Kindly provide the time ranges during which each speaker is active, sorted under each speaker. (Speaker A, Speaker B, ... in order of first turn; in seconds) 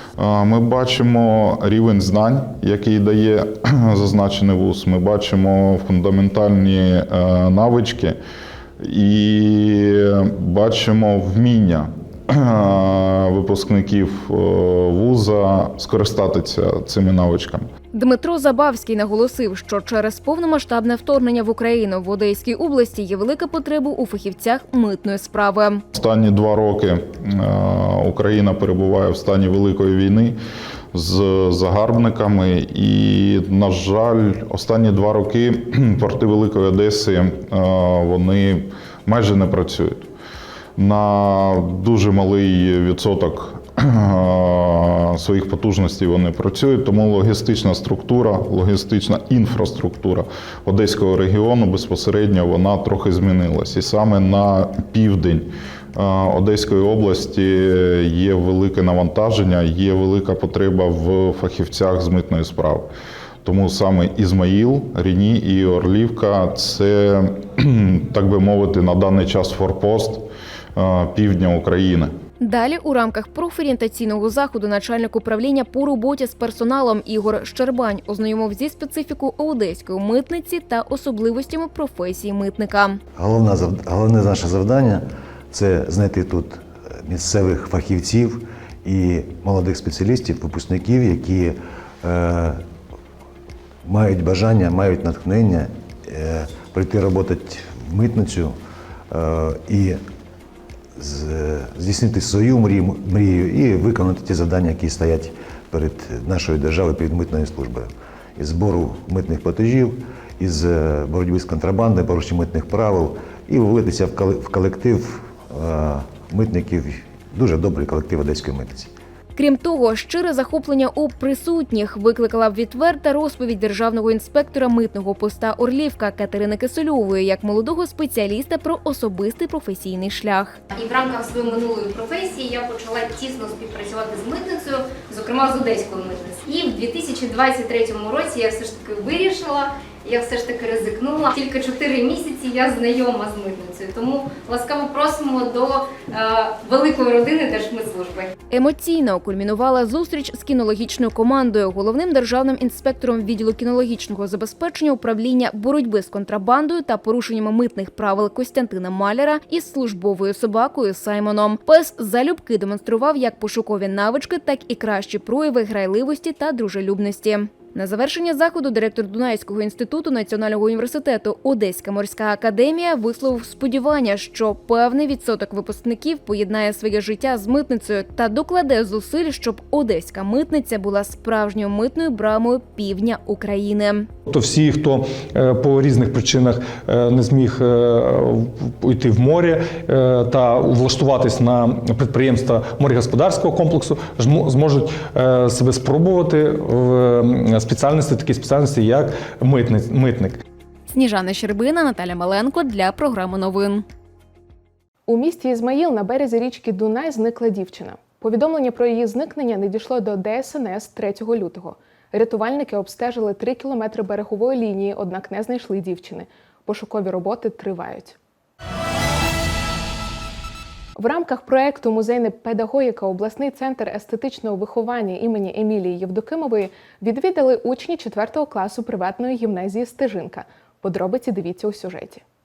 Speaker A: 0.2-8.2, 8.8-17.7, 25.9-30.4, 30.9-40.1, 40.8-62.9, 63.4-72.1
Speaker B: 17.9-25.8, 72.4-83.0, 119.4-130.6, 148.5-184.1, 200.9-203.8
Speaker C: 83.2-92.6, 93.8-98.6, 99.1-100.0, 101.0-118.9
Speaker D: 130.7-148.3
Speaker E: 184.3-200.4
Speaker F: 205.1-218.2, 221.0-232.2